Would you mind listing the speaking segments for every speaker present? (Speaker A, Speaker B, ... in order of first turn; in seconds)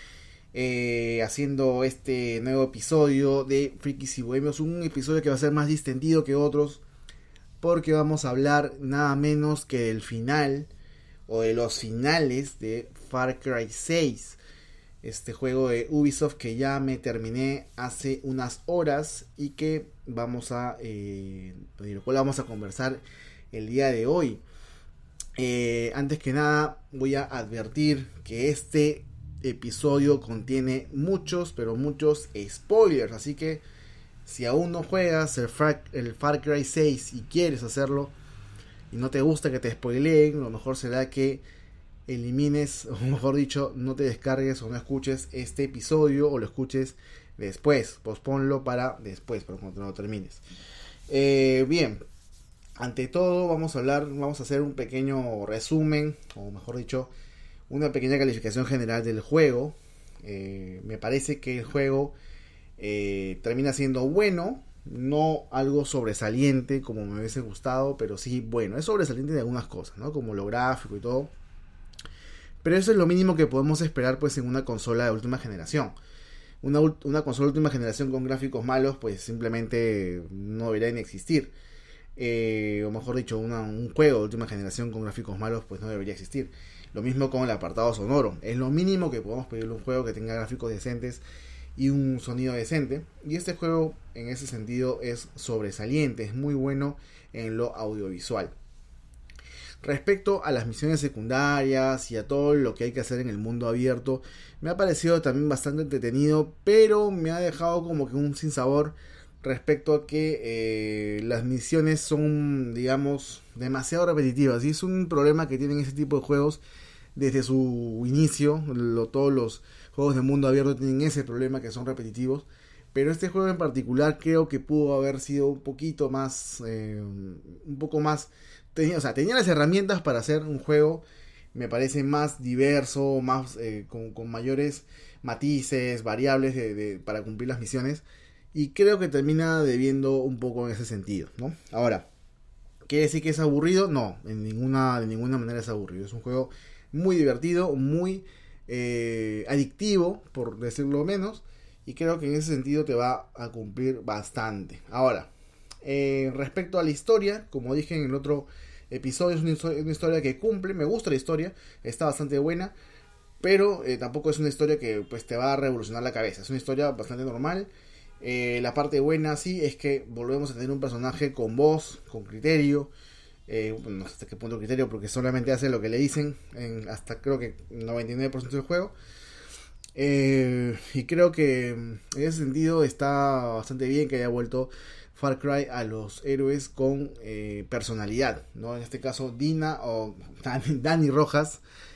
Speaker A: 0.5-6.8, 7.6-10.7, 11.3-14.4, 15.0-24.4, 25.4-33.6, 34.2-38.1, 38.9-41.4, 42.1-50.4, 51.1-52.0, 52.8-57.1, 57.7-62.1, 62.8-71.3, 72.6-75.9, 76.6-81.5, 82.2-91.2, 91.8-98.5, 99.8-116.6, 117.1-131.0, 131.5-142.1, 142.9-155.3, 155.8-162.7, 163.4-167.7, 168.2-172.9, 173.5-178.9, 179.9-191.6